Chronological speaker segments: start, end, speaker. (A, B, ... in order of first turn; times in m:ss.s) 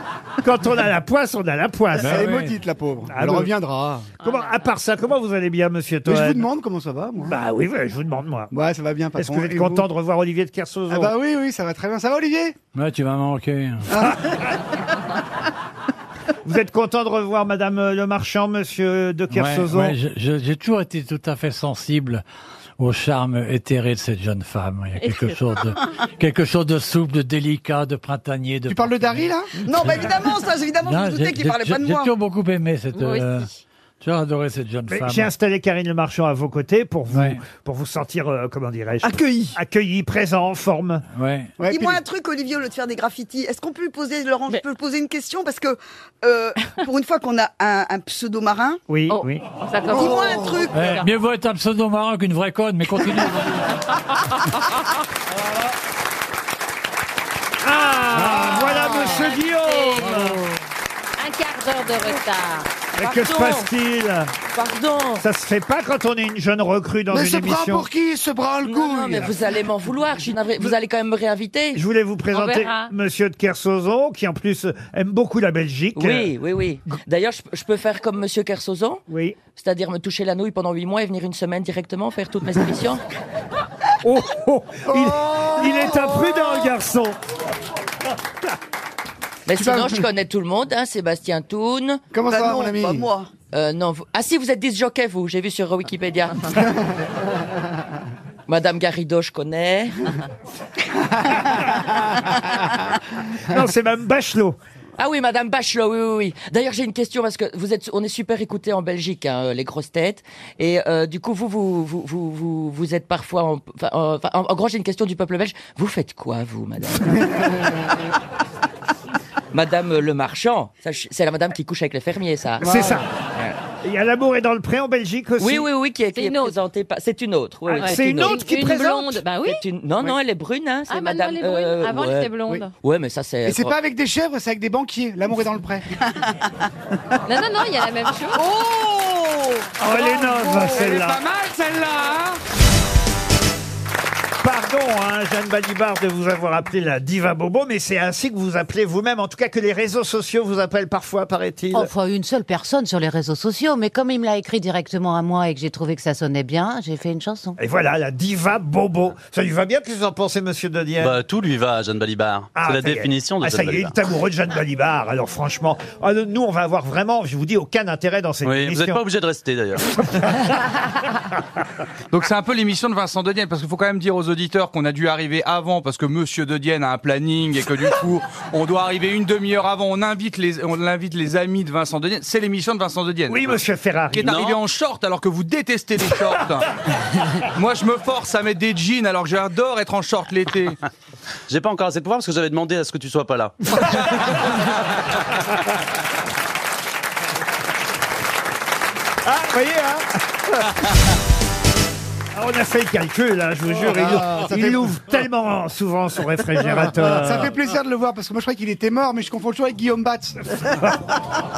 0:00.4-0:02.4 A
0:02.0-0:04.1 B
0:02.0-0:02.5 C
0:03.0-0:03.5 A
0:04.2-0:06.4 A
0:04.2-0:04.5 D
0:06.0-0:07.4 B
0:07.2-0:08.5 A
0:08.5-0:09.9 B
0:09.1-0:11.2 A
0:10.9-0:12.5 B
0:12.7-0:13.9 C
0:13.9-0:14.2 B
0:16.4-0:19.9 A
0:19.3-0:22.2 C
0:22.8-0:30.1 C
0:25.0-0:25.5 D
0:28.7-0:29.5 B
0:29.6-0:32.1 E
0:30.8-0:33.5 C
0:32.9-0:33.5 D
0:34.0-0:35.3 C
0:34.9-0:41.0 A
0:37.1-0:37.4 C
0:39.0-0:39.5 E
0:41.1-0:41.5 C
0:41.6-0:42.0 B
0:41.7-0:48.8 E
0:48.9-0:49.4 A
0:49.1-0:51.0 D
0:49.8-0:51.0 E
0:50.7-0:53.7 C
0:57.6-1:00.4 A
0:57.9-1:00.2 D
0:58.2-0:59.1 B
1:01.2-1:02.7 D
1:02.9-1:04.3 A
1:03.0-1:03.7 F
1:04.5-1:05.2 F
1:05.2-1:07.9 A
1:07.1-1:09.4 B
1:08.6-1:11.8 F
1:11.7-1:16.4 A
1:12.3-1:12.9 D
1:15.9-1:19.0 F
1:19.1-1:19.4 A
1:19.6-1:23.0 F
1:24.0-1:27.1 A
1:24.8-1:26.3 B
1:29.5-1:32.0 F
1:29.5-1:30.1 B
1:32.1-1:33.1 B
1:32.2-1:33.3 E
1:33.5-1:36.6 F
1:38.5-1:40.0 F
1:43.5-1:44.6 A
1:45.0-1:57.2 F
1:59.5-2:02.6 F
2:02.6-2:03.0 A
2:02.6-2:03.0 B
2:03.8-2:05.7 A
2:05.4-2:08.3 F
2:06.1-2:06.6 D
2:07.7-2:09.7 D
2:07.8-2:09.2 A
2:09.4-2:13.8 F
2:10.9-2:12.7 D
2:13.4-2:15.9 B
2:17.2-2:18.5 D
2:18.5-2:19.5 E
2:19.8-2:21.2 A
2:19.9-2:22.4 G
2:20.0-2:20.6 B
2:24.4-2:31.9 A
2:31.7-2:37.6 H
2:37.6-2:41.2 A
2:41.0-2:44.0 I
2:42.5-2:49.1 A
2:48.4-2:49.8 I
2:52.1-3:06.6 G
3:03.3-3:04.4 A
3:04.3-3:04.6 I
3:07.5-3:10.8 G
3:11.5-3:13.5 I
3:19.2-3:20.7 A
3:22.3-3:27.5 A
3:23.8-3:25.0 B
3:26.8-3:30.4 B
3:30.6-3:30.9 A